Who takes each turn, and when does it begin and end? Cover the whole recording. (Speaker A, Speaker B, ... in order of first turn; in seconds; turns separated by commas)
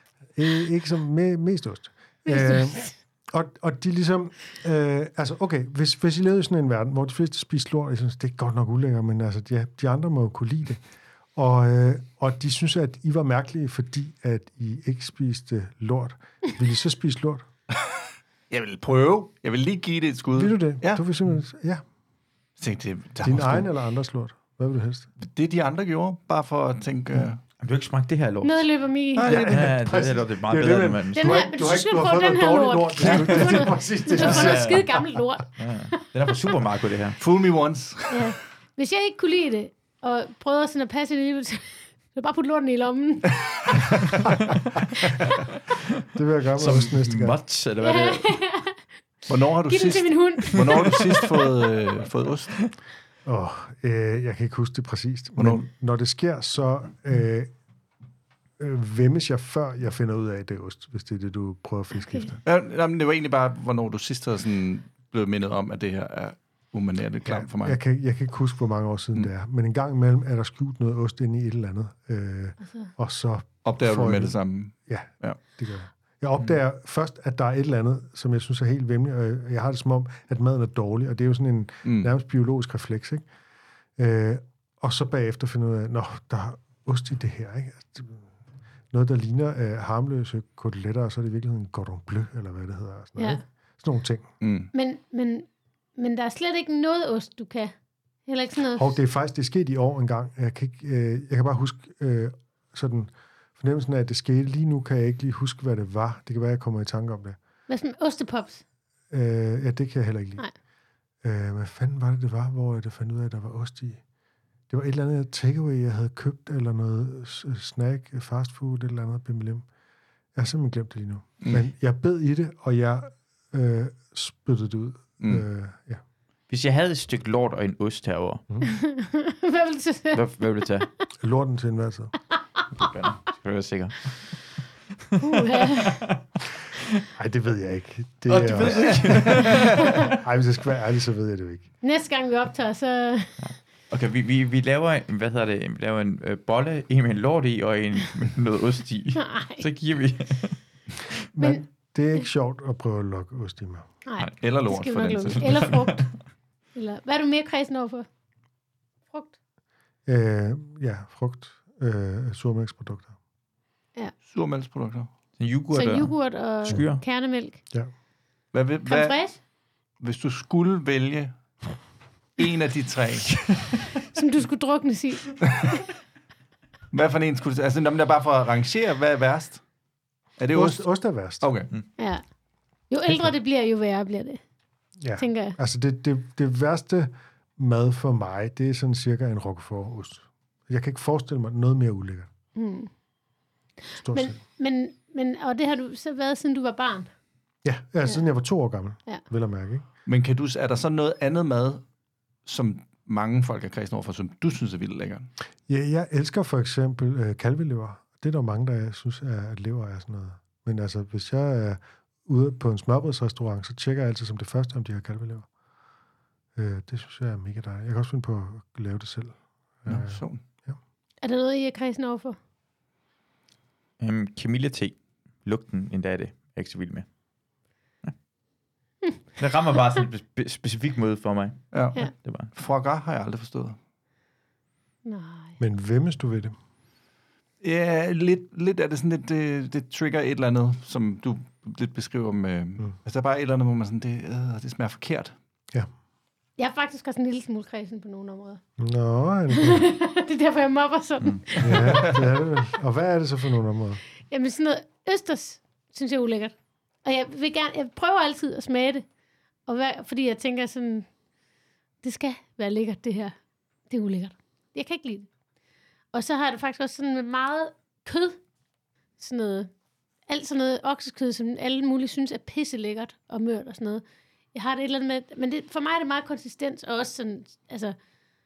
Speaker A: 0.3-10.8, Speaker B: 2.3-3.0, Speaker A: 11.3-17.5, Speaker C: 18.5-21.1, Speaker A: 20.3-21.8, Speaker C: 22.6-23.7, Speaker A: 23.2-25.1, Speaker C: 25.2-27.4, Speaker D: 27.6-28.7, Speaker B: 28.4-29.4, Speaker C: 29.2-29.7, Speaker A: 29.2-35.0, Speaker D: 29.5-31.4, Speaker B: 31.2-36.0, Speaker D: 33.1-33.5, Speaker D: 34.2-37.2, Speaker C: 37.2-38.3, Speaker B: 38.1-43.6, Speaker A: 46.1-47.4, Speaker D: 46.6-48.4, Speaker B: 47.8-48.8, Speaker C: 49.3-52.6, Speaker B: 49.6-51.4, Speaker A: 53.2-57.5, Speaker A: 58.6-62.4, Speaker C: 62.4-67.8, Speaker A: 67.2-83.3, Speaker B: 72.6-72.9, Speaker C: 73.6-75.4, Speaker C: 81.8-82.1, Speaker A: 84.0-88.3, Speaker A: 88.9-94.3, Speaker B: 93.2-93.4, Speaker C: 94.4-94.7, Speaker B: 94.7-97.7, Speaker B: 98.2-98.9, Speaker A: 98.8-107.4, Speaker B: 107.7-108.6, Speaker A: 109.1-110.5, Speaker A: 111.2-114.0, Speaker A: 114.7-119.7, Speaker A: 120.3-126.0, Speaker C: 125.2-125.5, Speaker D: 126.5-128.4, Speaker B: 128.6-130.2, Speaker D: 130.1-130.9, Speaker A: 131.2-132.1, Speaker D: 132.8-134.6, Speaker B: 135.2-136.1, Speaker A: 137.2-141.7, Speaker D: 138.3-139.9, Speaker B: 141.8-143.4, Speaker D: 143.4-150.6, Speaker B: 149.2-149.6, Speaker A: 151.3-153.9, Speaker B: 154.1-156.2, Speaker C: 154.4-155.8, Speaker D: 155.4-156.0, Speaker B: 156.7-158.1, Speaker B: 159.1-159.4, Speaker A: 160.1-163.2, Speaker C: 164.2-165.1, Speaker D: 165.4-167.0, Speaker B: 165.7-167.6, Speaker C: 168.5-169.4, Speaker B: 168.8-169.4, Speaker C: 170.0-171.8, Speaker C: 172.4-173.6, Speaker B: 174.1-175.4, Speaker C: 176.9-179.7, Speaker C: 180.4-181.7, Speaker A: 180.5-181.6, Speaker B: 182.0-182.3, Speaker B: 182.9-184.4, Speaker A: 185.0-192.3, Speaker B: 185.2-185.6, Speaker B: 192.6-192.9, Speaker B: 193.9-197.1, Speaker A: 194.0-194.4, Speaker A: 197.6-199.9, Speaker C: 200.1-201.9, Speaker C: 202.4-205.3, Speaker A: 205.7-215.5, Speaker A: 216.6-220.8, Speaker C: 219.9-220.4, Speaker B: 221.2-222.4, Speaker D: 224.0-227.1, Speaker D: 229.4-232.5, Speaker C: 231.7-233.8, Speaker B: 235.1-235.6, Speaker A: 235.6-236.6, Speaker C: 237.6-245.4, Speaker B: 246.6-248.6, Speaker A: 248.8-249.9, Speaker B: 249.5-252.2, Speaker A: 251.6-254.0, Speaker B: 254.3-259.1, Speaker B: 259.7-261.1, Speaker B: 262.0-263.4, Speaker B: 263.9-265.3, Speaker B: 266.1-268.4, Speaker B: 269.2-269.7, Speaker B: 270.3-278.0